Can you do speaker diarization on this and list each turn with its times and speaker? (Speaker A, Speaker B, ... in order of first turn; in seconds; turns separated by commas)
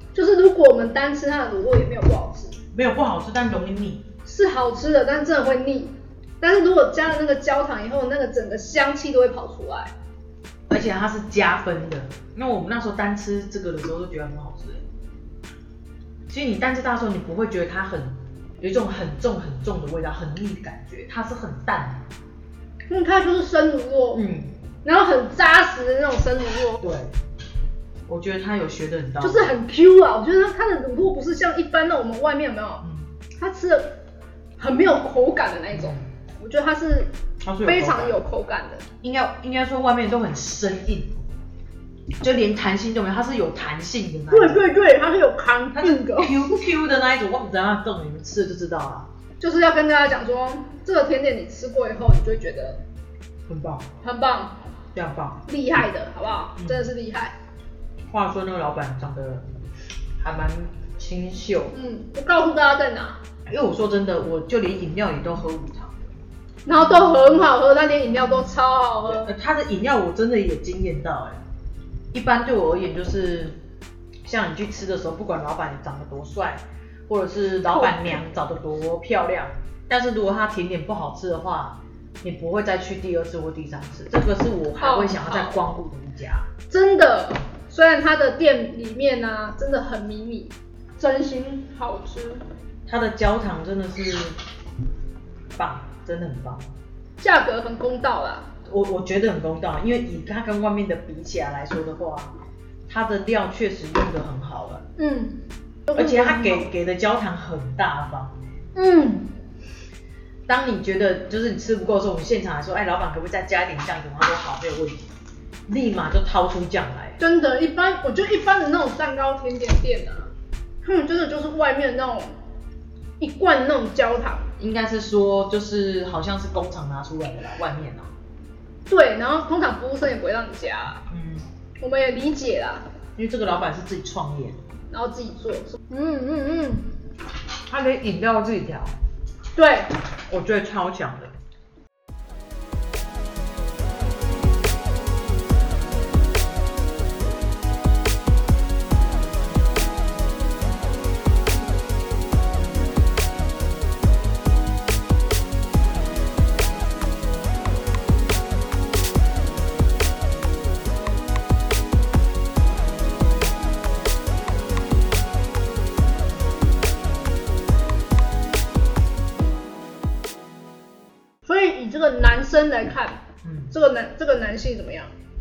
Speaker A: 0.1-2.6, Speaker B: 2.7-4.0, Speaker A: 4.2-9.9, Speaker B: 10.7-14.8, Speaker B: 16.3-22.0, Speaker A: 22.9-24.2, Speaker B: 24.1-24.5, Speaker A: 24.8-26.8, Speaker B: 26.8-27.1, Speaker B: 28.1-29.6, Speaker A: 29.2-32.9, Speaker A: 33.4-34.0, Speaker A: 34.6-37.1, Speaker B: 35.7-36.0, Speaker B: 37.4-38.2, Speaker A: 37.6-38.9, Speaker B: 39.0-41.2, Speaker B: 42.2-44.6, Speaker A: 44.3-46.6, Speaker B: 45.8-49.1, Speaker A: 49.4-52.8, Speaker B: 53.5-53.9, Speaker A: 54.0-54.6, Speaker B: 55.0-55.4, Speaker A: 55.5-57.4, Speaker B: 56.6-56.9, Speaker B: 58.1-59.4, Speaker B: 60.2-61.7, Speaker A: 61.7-63.2, Speaker B: 63.5-66.0, Speaker A: 66.7-69.3, Speaker B: 66.7-67.3, Speaker B: 69.1-71.4, Speaker B: 72.1-73.5, Speaker B: 74.2-86.5, Speaker A: 77.7-78.2, Speaker A: 84.8-85.6, Speaker A: 86.7-92.4, Speaker B: 92.9-94.4, Speaker B: 95.6-96.6, Speaker A: 97.2-98.5, Speaker B: 98.7-102.3, Speaker B: 102.9-104.8, Speaker A: 105.0-105.4, Speaker A: 105.9-106.7, Speaker B: 105.9-108.3, Speaker A: 108.8-109.3, Speaker B: 110.5-115.1, Speaker B: 115.7-117.2, Speaker A: 117.2-120.3, Speaker A: 120.8-122.3, Speaker A: 123.2-124.5, Speaker B: 124.6-128.1, Speaker A: 128.9-131.1, Speaker B: 131.1-131.5, Speaker A: 131.8-132.8, Speaker B: 133.2-134.6, Speaker A: 134.9-136.9, Speaker B: 137.7-138.9, Speaker A: 139.5-139.9, Speaker B: 140.3-141.3, Speaker A: 171.5-175.1, Speaker B: 173.4-173.7